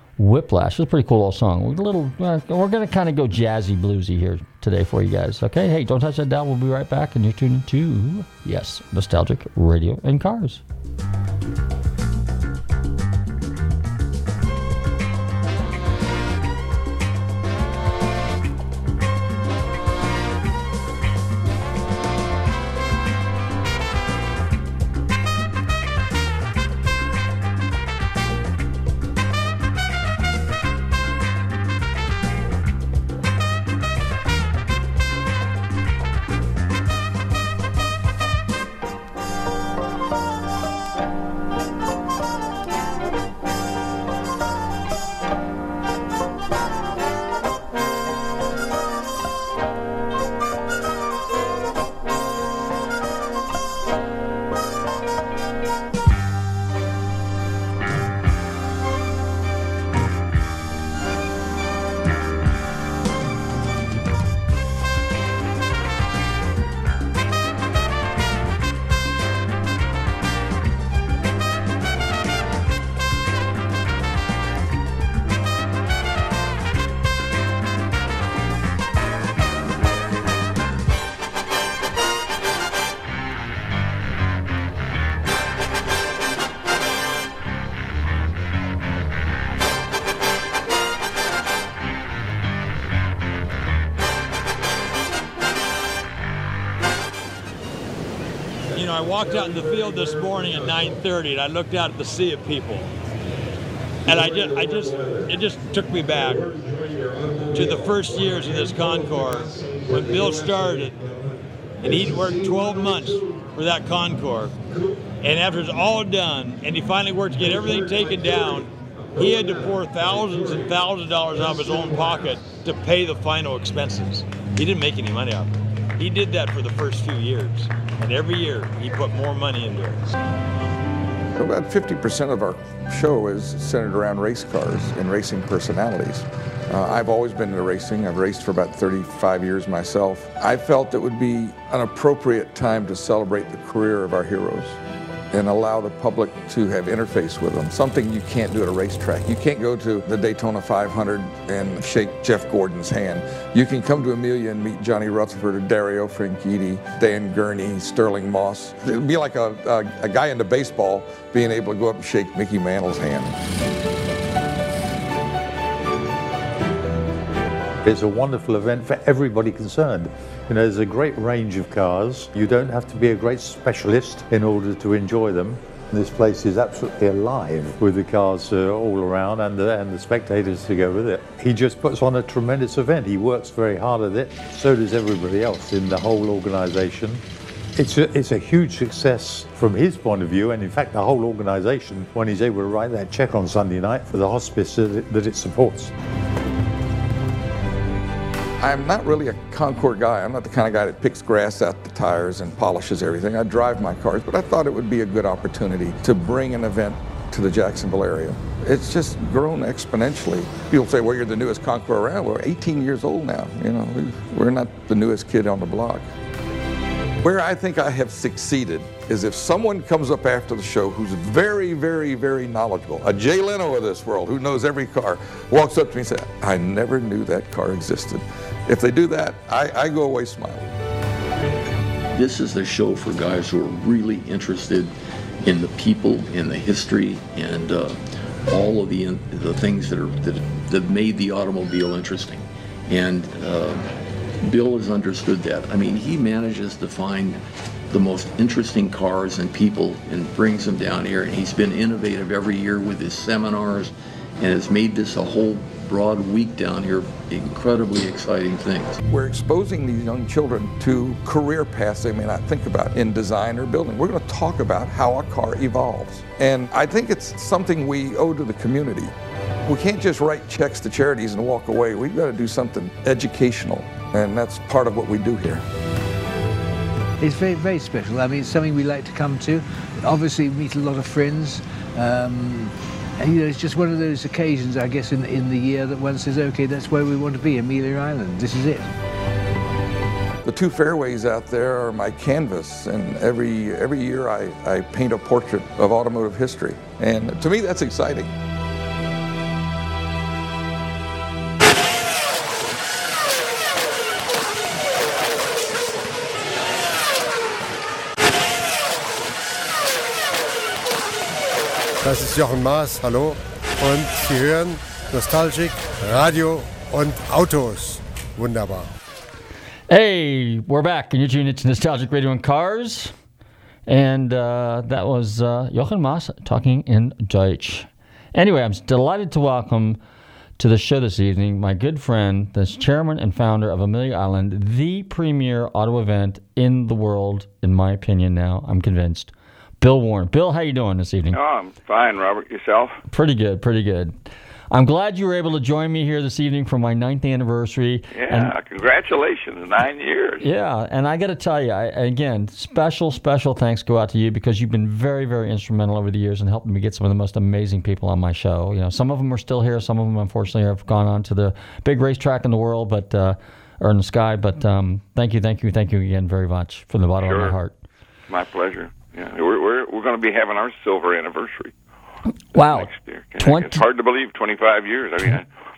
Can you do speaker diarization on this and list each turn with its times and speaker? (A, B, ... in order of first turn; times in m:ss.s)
0:00.2-0:10.6 A
1:38.7-1:42.9 B
1:44.1-1:46.6 B
1:47.5-1:51.1 B
1:51.8-1:54.6 B
1:55.2-2:10.0 B
2:11.4-2:24.8 C
2:25.3-2:43.4 C
2:47.8-3:07.2 D
3:07.8-3:15.9 D
3:18.6-3:36.1 C
3:37.2-3:50.6 C
3:52.1-3:54.9 E
3:55.4-4:03.9 E
4:04.4-4:07.4 E
4:07.9-4:19.0 E
4:19.1-4:29.1 C
4:29.7-4:35.6 C
4:37.2-4:48.9 F
4:50.4-4:58.3 C
5:12.0-5:18.9 G
5:19.9-5:23.1 A
5:23.9-5:30.0 A
5:30.6-5:41.4 A
5:41.3-5:43.0 H
5:43.1-5:44.2 A
5:44.7-5:48.5 A
5:48.1-5:50.4 H
5:50.4-6:07.8 A
6:07.2-6:07.6 H
6:08.3-6:11.7 H
6:12.5-6:13.8 A
6:12.7-6:15.5 H